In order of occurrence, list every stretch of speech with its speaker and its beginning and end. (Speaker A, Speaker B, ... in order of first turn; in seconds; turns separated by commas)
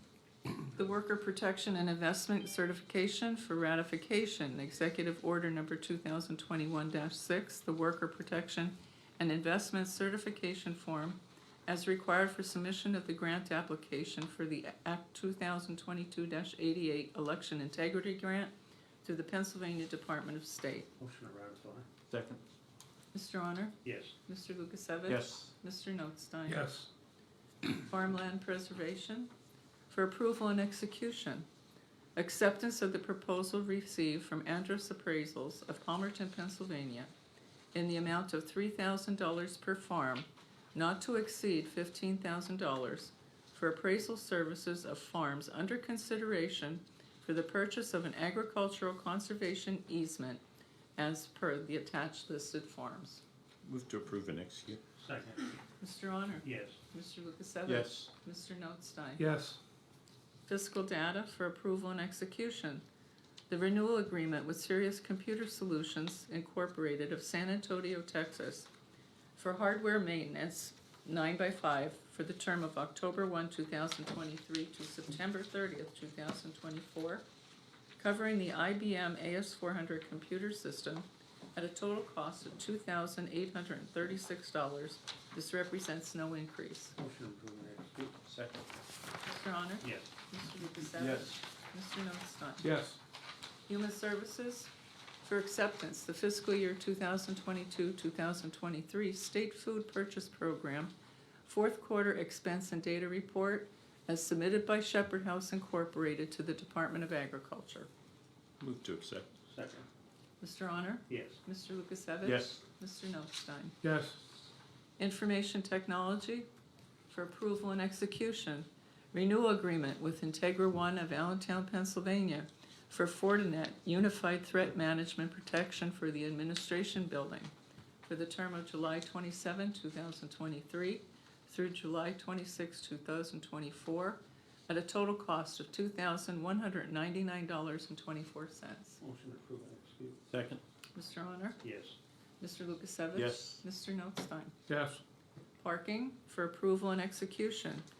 Speaker A: 0.7-18.5, Speaker A: 19.0-20.9, Speaker B: 21.0-21.9, Speaker C: 22.1-22.4, Speaker A: 23.1-26.6, Speaker B: 23.8-24.1, Speaker C: 25.1-25.5, Speaker D: 26.4-26.9, Speaker A: 27.8-29.3, Speaker A: 29.9-31.5, Speaker A: 32.1-37.1, Speaker A: 37.7-50.4, Speaker A: 51.0-53.2, Speaker C: 53.6-54.8, Speaker B: 55.0-55.5, Speaker A: 55.8-59.2, Speaker B: 56.4-56.8, Speaker C: 57.7-58.1, Speaker D: 59.2-59.6, Speaker A: 60.5-62.8, Speaker A: 63.5-68.7, Speaker A: 69.3-77.2, Speaker A: 78.0-87.0, Speaker B: 87.0-88.1, Speaker C: 88.2-88.7, Speaker A: 89.2-92.7, Speaker C: 91.0-91.2, Speaker D: 92.6-93.0, Speaker A: 93.7-94.7, Speaker A: 95.2-100.9, Speaker A: 101.4-107.9, Speaker C: 108.6-109.3, Speaker B: 109.5-109.8, Speaker A: 110.4-113.8, Speaker B: 111.1-111.4, Speaker C: 112.2-112.6, Speaker D: 113.8-114.2, Speaker A: 115.0-116.5, Speaker A: 117.1-127.5, Speaker A: 128.1-139.0, Speaker B: 139.0-140.2, Speaker C: 140.3-140.6, Speaker A: 140.9-141.6, Speaker B: 141.6-141.9, Speaker A: 142.4-144.5, Speaker C: 143.1-143.6, Speaker D: 144.7-145.0, Speaker A: 145.6-147.8